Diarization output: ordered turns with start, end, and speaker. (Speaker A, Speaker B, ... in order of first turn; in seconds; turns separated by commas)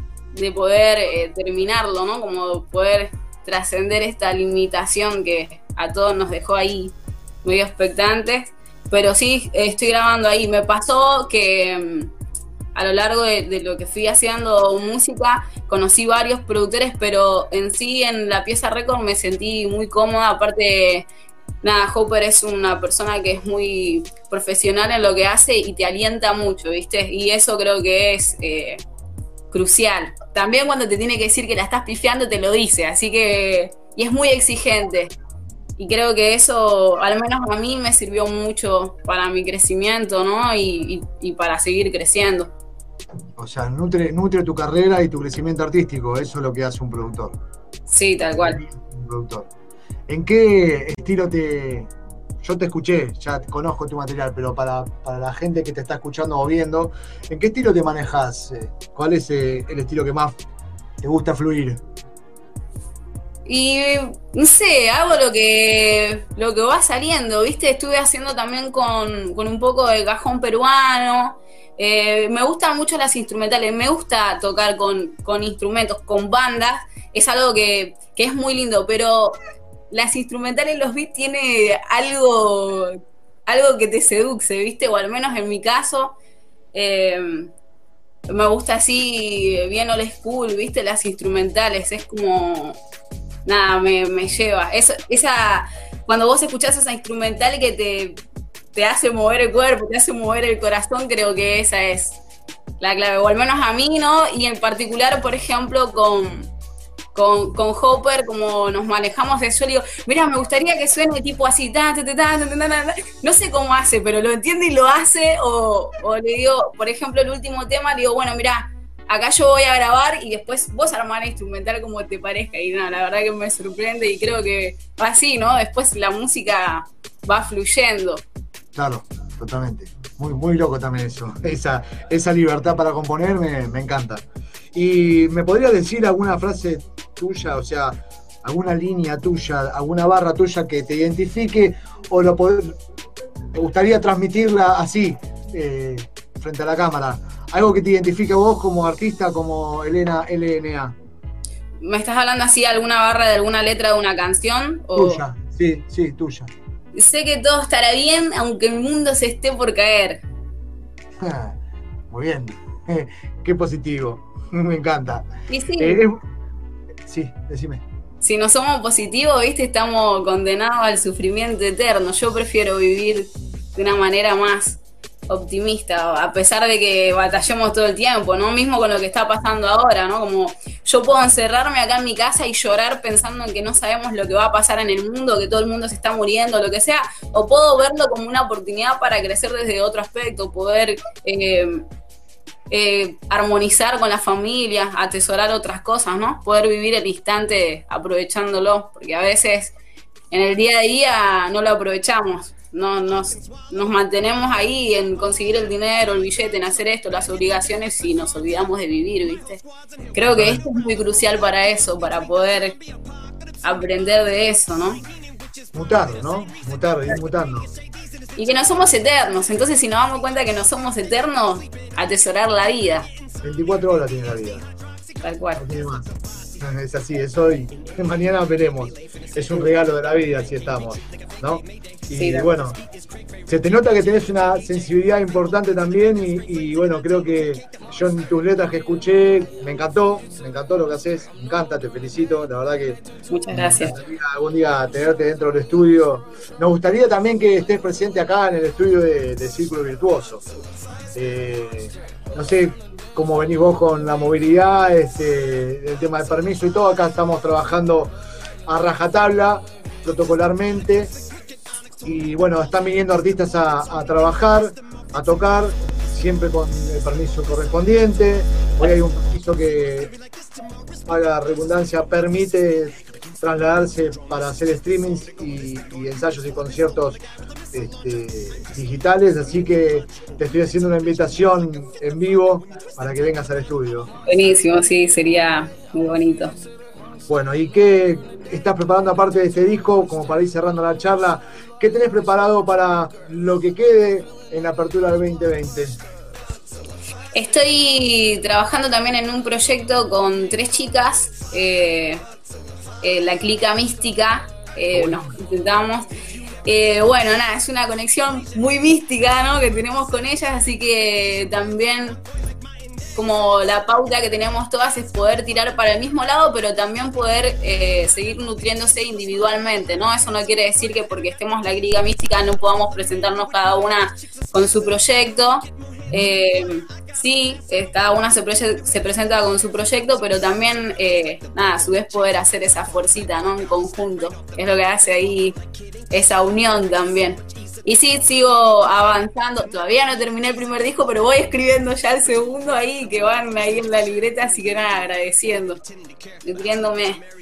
Speaker A: 0.3-12.1, Speaker A: 12.7-21.1, Speaker A: 21.6-28.8, Speaker A: 29.5-35.1, Speaker A: 35.8-42.5, Speaker B: 43.4-47.4, Speaker A: 47.9-48.6, Speaker B: 48.4-49.5, Speaker B: 50.1-51.9, Speaker B: 52.4-60.3, Speaker B: 61.0-61.8, Speaker A: 63.5-79.4, Speaker A: 79.9-86.2, Speaker A: 86.7-87.5, Speaker A: 88.3-92.8, Speaker A: 93.5-98.2, Speaker A: 98.7-102.2, Speaker A: 102.8-106.5, Speaker A: 107.1-128.2, Speaker B: 128.8-134.2, Speaker B: 134.7-142.8, Speaker B: 143.5-151.0, Speaker A: 151.8-155.2, Speaker B: 154.9-156.5, Speaker A: 156.9-160.2, Speaker B: 161.2-161.6, Speaker B: 162.1-166.2, Speaker A: 165.5-166.1, Speaker B: 167.1-167.8, Speaker A: 168.2-191.9, Speaker A: 192.7-199.8, Speaker A: 200.3-209.6, Speaker A: 210.1-212.8, Speaker B: 210.2-210.7, Speaker A: 213.6-215.0, Speaker B: 215.7-217.7, Speaker A: 218.4-223.1, Speaker B: 223.4-224.7, Speaker A: 225.2-225.7, Speaker B: 225.6-232.8, Speaker A: 232.2-232.5, Speaker B: 233.5-250.4, Speaker A: 243.3-244.0, Speaker B: 251.1-258.1, Speaker B: 258.7-261.1, Speaker B: 262.0-270.1, Speaker B: 271.1-277.2, Speaker B: 277.7-284.1, Speaker A: 284.3-286.6, Speaker B: 287.3-296.0, Speaker A: 297.3-302.2, Speaker A: 303.0-306.1, Speaker B: 304.9-305.4, Speaker A: 306.6-312.2, Speaker A: 313.1-335.6, Speaker A: 336.1-345.8, Speaker A: 346.4-347.2